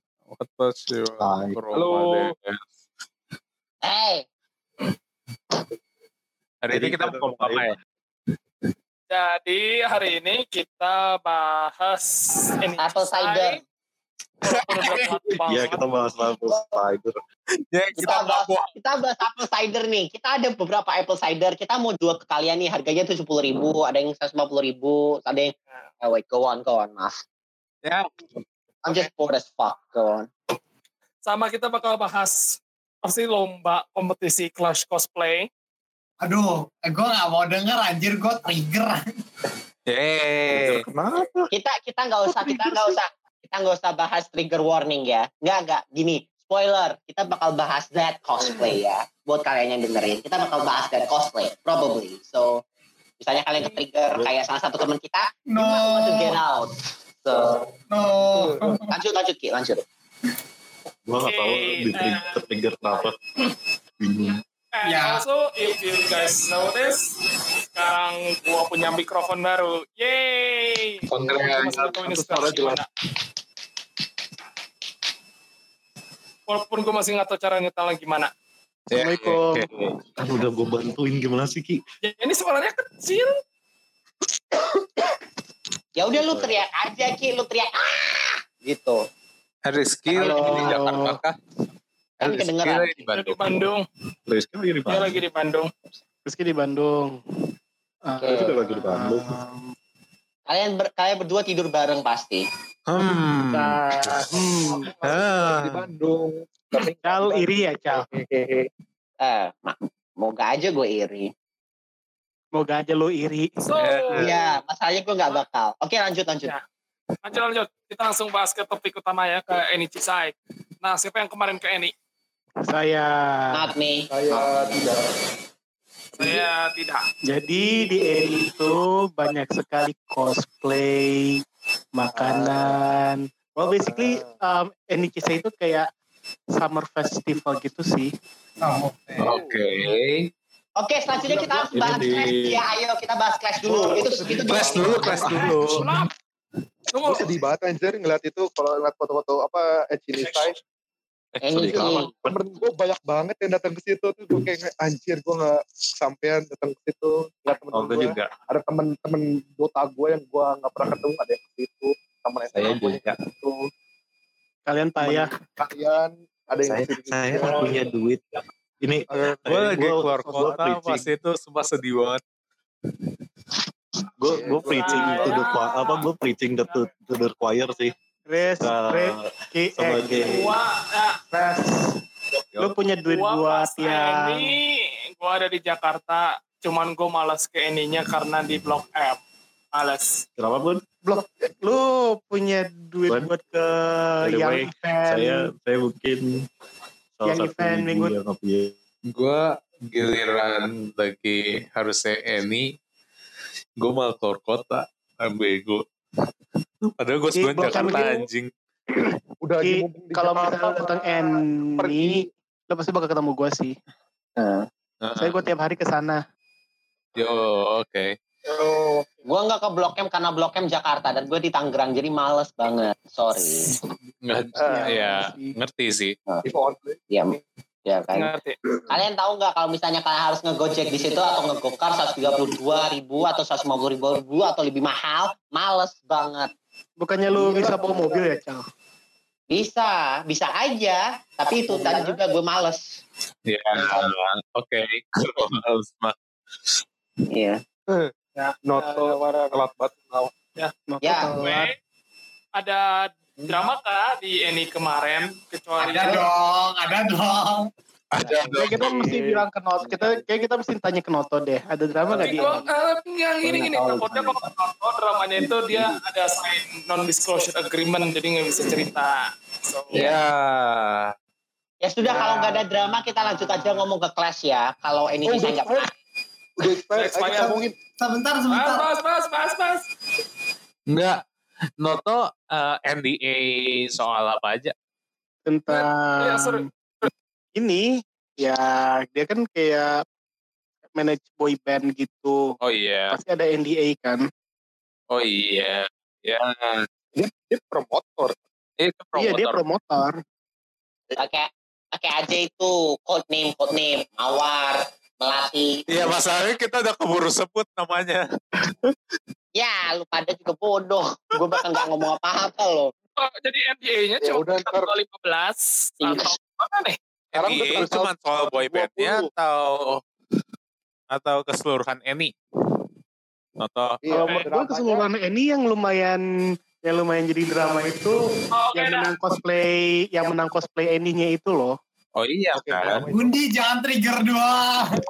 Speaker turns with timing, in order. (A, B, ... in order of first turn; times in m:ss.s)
0:00.3-0:02.6 A
0:01.2-0:01.6 B
0:01.7-0:02.3 C
0:03.8-0:04.2 D
0:06.6-0:07.8 A
0:06.7-0:07.7 B
0:09.1-0:13.6 E
0:12.8-0:13.6 D
0:14.4-0:15.8 E
0:14.5-0:15.1 A
0:15.5-0:17.1 B
0:16.5-0:16.8 D
0:17.7-0:18.7 A
0:18.0-0:27.2 D
0:27.8-0:28.1 A
0:28.8-0:30.3 D
0:31.3-0:35.5 E
0:36.2-0:39.0 F
0:39.9-0:40.9 A
0:40.6-0:41.5 C
0:41.5-0:52.6 D
0:53.2-0:57.6 D
0:55.5-0:56.4 F
0:57.9-0:58.9 F
0:58.3-0:58.8 C
0:58.9-0:59.8 D
1:01.1-1:03.2 B
1:01.2-1:02.4 E
1:04.0-1:04.4 B
1:04.8-1:07.1 E
1:04.8-1:05.2 F
1:07.7-1:12.9 E
1:11.1-1:12.0 A
1:11.2-1:12.8 C
1:16.5-1:18.3 E
1:18.9-1:20.0 A
1:18.9-1:19.6 G
1:20.2-1:21.8 B
1:22.0-1:23.3 E
1:26.0-1:29.0 D
1:26.1-1:26.5 B
1:29.6-1:31.4 A
1:30.1-1:31.2 G
1:30.1-1:30.8 D
1:32.2-1:33.4 A
1:32.2-1:33.1 D
1:33.2-1:33.8 E
1:34.3-1:35.2 B
1:34.9-1:35.7 E
1:36.3-1:37.2 G
1:38.1-1:39.6 G
1:38.2-1:38.5 D
1:38.3-1:39.4 B
1:40.5-1:42.5 D
1:42.9-1:43.2 B
1:43.0-1:43.7 A
1:43.5-1:44.9 G
1:45.1-1:45.8 B
1:45.1-1:48.6 C
1:47.0-1:48.0 G
1:49.2-1:51.3 D
1:52.6-1:53.5 G
1:53.6-1:54.3 E
1:53.8-1:54.3 A
1:54.2-1:56.5 D
1:57.2-2:01.9 E
2:02.7-2:03.4 G
2:03.5-2:04.8 D
2:04.1-2:05.0 C
2:06.2-2:07.0 E
2:06.2-2:06.4 C
2:07.3-2:11.4 G
2:12.0-2:15.9 G
2:12.1-2:12.8 C
2:13.7-2:14.3 C
2:16.6-2:18.1 G
2:18.6-2:19.4 F
2:19.2-2:20.3 A
2:19.2-2:19.6 C
2:20.8-2:25.4 D
2:21.2-2:22.0 C
2:21.3-2:22.6 B
2:23.7-2:25.4 C
2:24.5-2:26.0 A
2:24.8-2:25.8 B
2:25.7-2:26.1 E
2:26.9-2:27.3 E
2:27.0-2:30.6 C
2:31.5-2:32.0 D
2:31.5-2:32.4 B
2:31.7-2:43.6 C
2:37.7-2:38.1 B
2:38.0-2:38.3 A
2:42.6-2:43.0 B
2:44.7-2:45.3 G
2:45.0-2:47.8 C
2:46.7-2:48.2 B
2:48.8-2:51.0 B
2:49.1-2:49.9 C
2:49.5-2:52.2 A
2:54.2-2:57.9 B
2:54.3-2:55.5 C
2:54.6-2:56.1 E
2:58.3-3:00.3 G
2:58.6-3:00.5 B
3:00.2-3:01.2 E
3:01.3-3:01.9 G
3:02.6-3:04.5 G
3:03.1-3:09.2 E
3:09.7-3:10.2 E
3:10.4-3:10.8 B
3:11.1-3:15.5 G
3:13.1-3:13.3 B
3:14.2-3:16.4 B
3:17.2-3:18.8 B
3:17.3-3:18.2 G
3:19.1-3:22.7 A
3:23.8-3:25.8 A
3:27.0-3:28.5 A
3:27.4-3:28.3 G
3:29.4-3:32.3 C
3:29.6-3:33.8 G
3:34.4-3:34.7 D
3:35.0-3:35.4 A
3:35.2-3:36.2 G
3:37.2-3:38.2 A
3:39.2-3:43.7 D
3:44.2-3:46.2 A
3:44.6-3:45.0 C
3:44.6-3:45.5 G
3:46.4-3:47.0 C
3:47.1-3:48.3 D
3:48.1-3:48.6 E
3:48.9-3:56.5 D
3:57.0-3:58.6 G
3:57.3-3:58.4 C
3:59.5-4:03.0 D
4:03.5-4:06.2 A
4:07.3-4:07.6 D
4:08.4-4:09.6 E
4:08.6-4:10.3 C
4:10.9-4:11.7 G
4:11.0-4:11.3 D
4:11.4-4:11.7 E
4:12.6-4:16.3 E
4:15.8-4:17.7 F
4:18.1-4:19.0 A
4:18.2-4:20.3 C
4:18.4-4:22.7 G
4:22.1-4:22.5 C
4:22.2-4:30.2 E
4:23.4-4:24.4 C
4:29.9-4:31.1 A
4:31.8-4:35.9 D
4:32.0-4:32.6 C
4:35.2-4:35.9 C
4:36.6-4:37.8 C
4:37.0-4:37.6 E
4:38.0-4:38.9 F
4:38.5-4:39.8 E
4:40.9-4:41.2 A
4:41.8-4:44.7 A
4:45.5-4:46.6 G
4:45.7-4:47.1 E
4:47.6-4:47.8 G
4:48.4-4:49.9 G
4:51.0-4:52.4 G
4:52.6-4:53.2 A
4:53.1-4:54.2 G
4:55.1-4:56.9 A
4:57.2-4:58.4 C
4:58.8-4:59.6 A
4:59.2-5:00.2 G
5:01.2-5:05.8 D
5:05.9-5:09.0 A
5:09.6-5:12.9 D
5:13.2-5:17.0 E
5:14.2-5:14.9 C
5:16.0-5:16.3 D
5:17.4-5:19.2 C
5:17.4-5:20.0 A
5:17.7-5:18.0 G
5:21.1-5:22.3 A
5:23.6-5:24.0 A
5:24.0-5:25.1 C
5:24.1-5:26.2 G
5:26.9-5:28.2 G
5:28.6-5:29.2 E
5:28.7-5:31.7 G
5:32.2-5:33.0 A
5:32.5-5:33.4 C
5:33.1-5:34.9 F